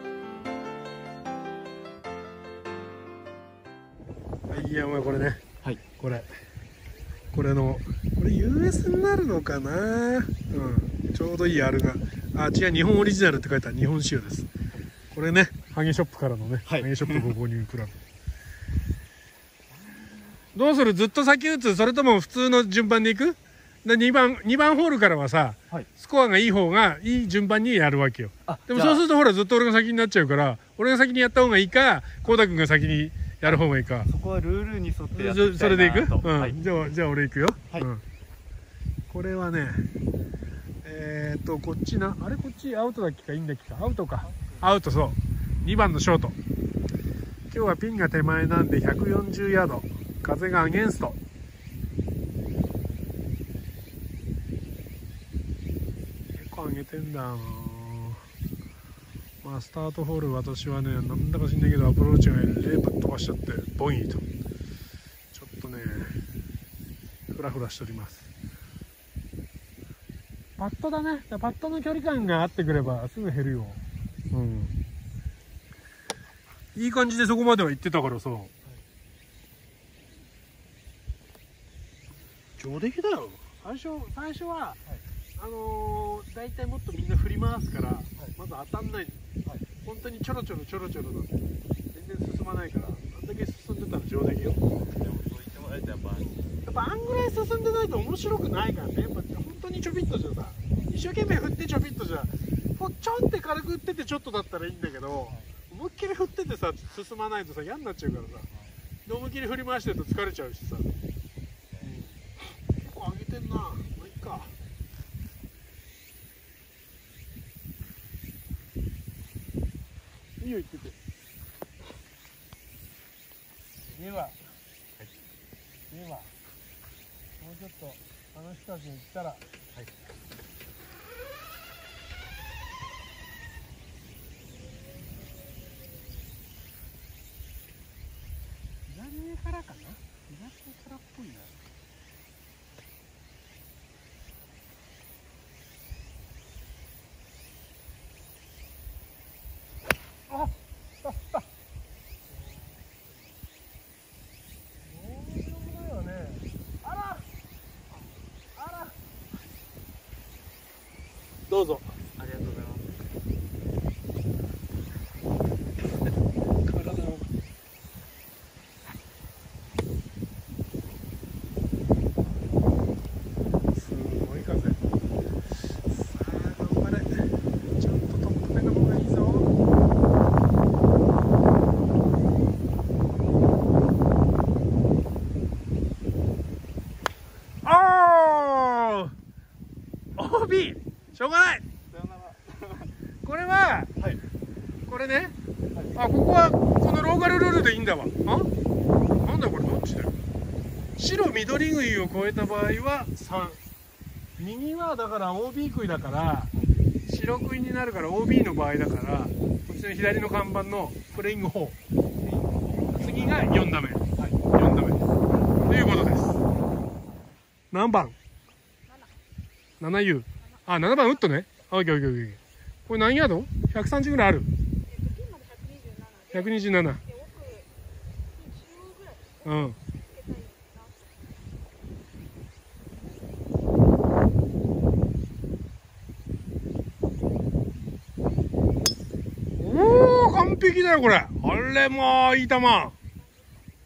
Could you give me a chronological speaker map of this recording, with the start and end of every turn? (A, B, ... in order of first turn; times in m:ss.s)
0:04.5-0:06.3 A
0:07.3-0:14.5 A
0:15.1-0:18.0 A
0:16.7-0:17.3 B
0:20.5-0:34.1 A
0:28.5-0:29.0 B
0:33.5-0:36.6 B
0:35.1-0:38.0 A
0:39.1-0:39.9 A
0:40.8-0:46.4 A
0:44.2-0:44.6 B
0:47.5-0:51.2 A
0:56.4-0:58.2 A
0:59.4-1:04.3 A
1:05.3-1:06.2 A
1:07.3-1:08.3 A
1:10.6-1:14.8 A
1:16.8-1:18.5 A
1:22.6-1:24.8 A
1:25.4-1:29.2 A
1:29.8-1:31.4 A
1:31.9-1:34.6 A
1:34.7-1:36.5 B
1:36.6-1:48.5 A
1:49.0-1:50.9 A
1:51.8-1:54.6 A
2:00.4-2:01.0 A
2:03.9-2:04.4 A
2:05.9-2:06.3 A
2:07.4-2:09.4 A
2:18.9-2:21.6 A
2:30.3-2:31.4 A
2:34.8-2:37.3 A
2:38.6-2:39.0 A
2:41.5-2:41.9 A
2:42.2-2:42.9 B
2:46.7-2:47.3 A
2:53.7-2:54.8 A
2:55.8-2:59.5 A
3:07.6-3:09.1 A
3:10.2-3:11.6 A
3:11.9-3:12.9 B
3:13.2-3:13.9 A
3:14.9-3:15.4 A
3:15.9-3:18.5 A
3:19.2-3:20.2 A
3:21.0-3:23.6 A
3:24.4-3:26.5 A
3:27.1-3:31.8 A
3:32.2-3:33.5 B
3:33.0-3:35.1 A
3:35.6-3:36.4 A
3:37.7-3:38.2 A
3:39.8-3:44.5 A
3:45.0-3:46.3 C
3:46.3-3:47.0 A
3:47.3-3:47.6 C
3:48.5-3:49.2 C
3:49.4-3:49.8 A
3:50.2-3:50.8 C
3:59.6-4:03.0 A